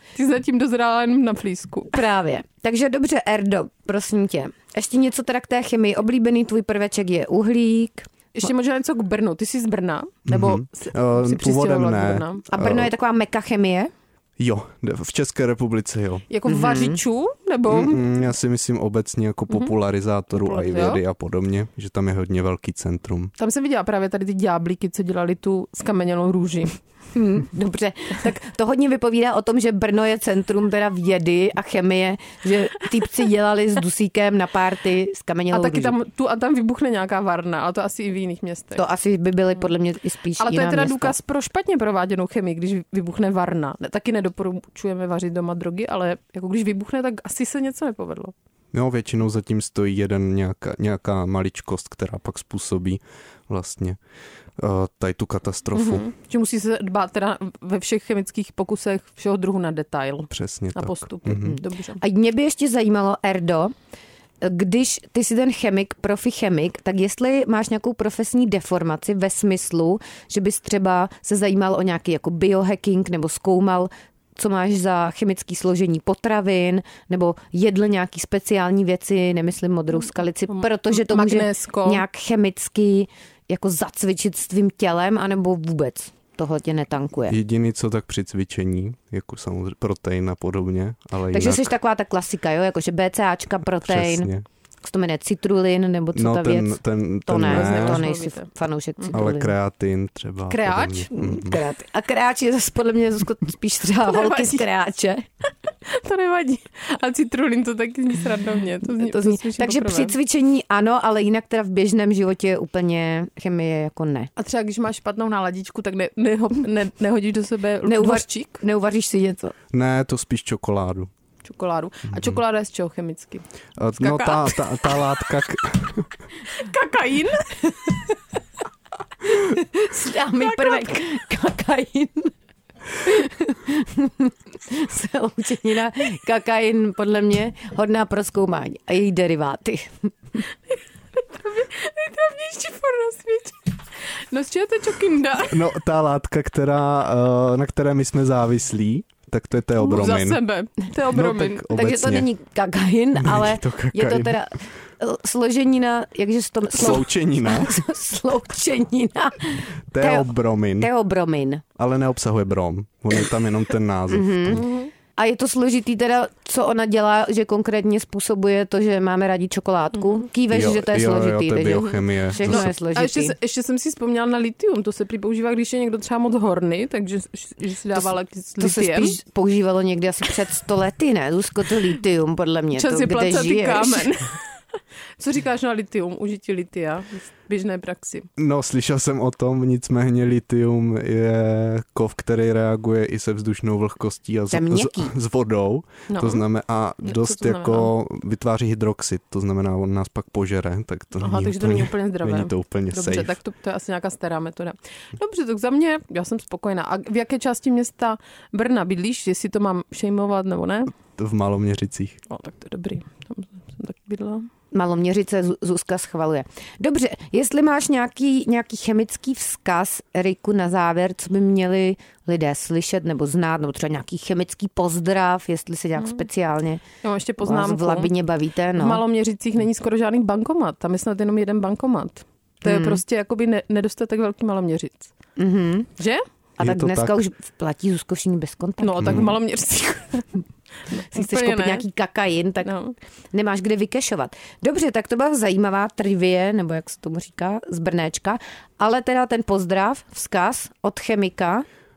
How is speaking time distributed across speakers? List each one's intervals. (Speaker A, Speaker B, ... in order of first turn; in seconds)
Speaker A: 0.1-1.9, 8.3-12.4, 16.3-18.1, 20.3-21.0, 23.4-26.8, 35.5-38.8, 40.4-48.3, 55.7-62.0, 80.5-82.0, 97.5-98.5, 100.5-101.1, 104.0-104.6, 105.8-110.1, 114.4-118.6, 121.4-123.4, 124.0-125.2, 126.4-128.1, 130.4-131.0, 140.7-145.6, 149.8-151.8, 164.6-164.9, 171.7-179.2, 182.7-184.4, 185.2-188.3, 196.1-196.4, 197.0-197.9, 201.2-210.9, 212.3-214.5, 226.0-226.2, 227.0-228.1, 228.8-235.1, 236.0-236.2, 238.8-240.2, 240.9-241.8, 242.6-242.9
Speaker B: 1.9-8.1, 12.5-13.9, 16.5-17.0, 27.1-36.0, 38.7-41.1, 61.4-63.7, 64.4-87.4, 91.3-94.3, 94.8-99.5, 101.1-105.2, 109.0-114.3, 117.8-119.5, 129.3-132.3, 133.0-140.1, 151.7-161.6, 164.1-164.6, 165.2-173.3, 177.9-184.1, 194.5-195.1, 214.7-226.8, 227.4-229.0, 232.6-233.0, 235.4-235.9, 236.6-239.3, 241.1-242.7, 243.3-251.7
Speaker C: 10.3-12.9, 14.4-16.2, 17.7-23.3, 48.7-54.0, 54.6-56.0, 60.3-61.6, 87.3-91.7, 93.8-94.4, 96.1-98.0, 99.1-101.6, 119.7-121.1, 122.1-122.4, 123.8-126.0, 145.5-150.4, 151.1-152.3, 153.2-154.3, 156.7-157.8, 159.9-160.9, 161.8-164.6, 170.5-172.7, 188.4-203.4, 211.2-212.2, 236.6-237.2, 239.0-239.3